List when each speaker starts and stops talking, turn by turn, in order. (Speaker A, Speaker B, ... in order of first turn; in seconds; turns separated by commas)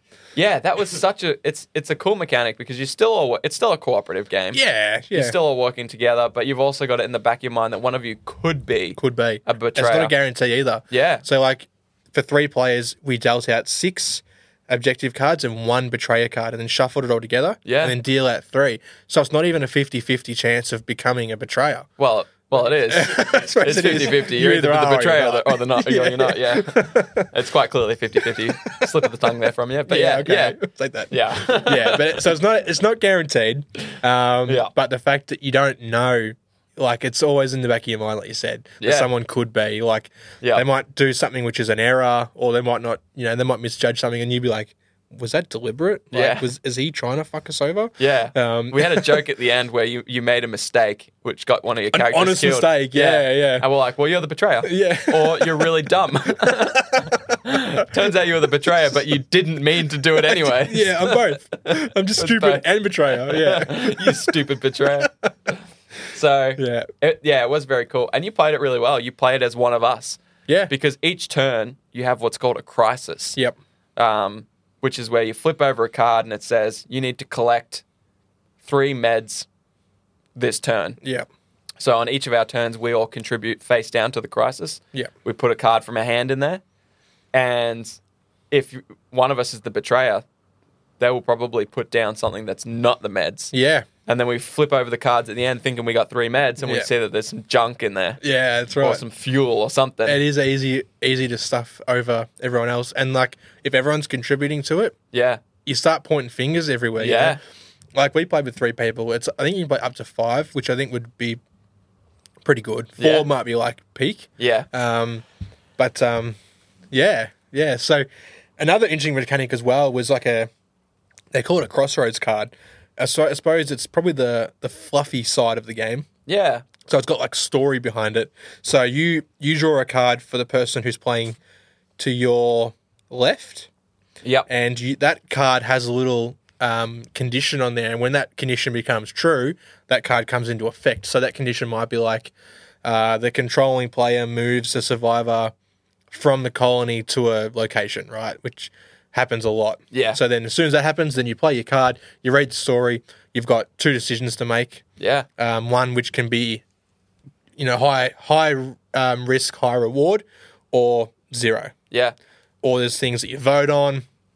Speaker A: 0.3-4.6, Speaker B: 4.5-5.3, Speaker A: 5.1-10.1, Speaker B: 9.0-21.9, Speaker A: 10.9-11.2, Speaker A: 17.6-18.0, Speaker A: 22.0-30.6, Speaker B: 22.6-27.3, Speaker B: 28.2-28.9, Speaker B: 29.9-49.2, Speaker A: 31.1-32.1, Speaker A: 34.5-34.7, Speaker A: 38.8-39.1, Speaker A: 40.4-40.6, Speaker A: 46.1-46.5, Speaker A: 48.0-65.1, Speaker B: 51.9-53.7, Speaker B: 54.6-55.7, Speaker B: 56.3-57.1, Speaker B: 60.2-64.4, Speaker B: 65.0-65.3, Speaker A: 66.1-73.4, Speaker B: 66.6-66.9, Speaker A: 74.0-77.8, Speaker A: 78.6-79.5, Speaker A: 80.3-81.0, Speaker B: 81.0-81.3, Speaker A: 81.8-86.6, Speaker A: 87.3-88.0, Speaker A: 88.5-90.2, Speaker A: 91.0-93.5, Speaker B: 93.5-93.9, Speaker A: 94.1-98.2, Speaker B: 96.6-96.9, Speaker B: 98.2-99.0, Speaker A: 98.8-100.2, Speaker B: 100.0-105.0, Speaker A: 105.1-105.4, Speaker B: 105.6-107.4, Speaker A: 107.0-107.4, Speaker B: 107.9-111.4, Speaker B: 112.4-115.2, Speaker A: 113.0-113.3, Speaker A: 114.4-114.7, Speaker B: 115.8-116.4, Speaker B: 116.9-118.1, Speaker B: 118.6-120.5, Speaker B: 121.3-126.1, Speaker A: 126.2-126.7, Speaker B: 126.8-131.4, Speaker B: 132.0-133.7, Speaker A: 134.2-134.5, Speaker B: 134.5-142.3, Speaker B: 142.8-145.5, Speaker B: 146.1-154.8, Speaker A: 149.9-150.2, Speaker A: 155.0-155.3, Speaker B: 155.4-156.6, Speaker B: 157.6-161.7, Speaker B: 162.6-164.0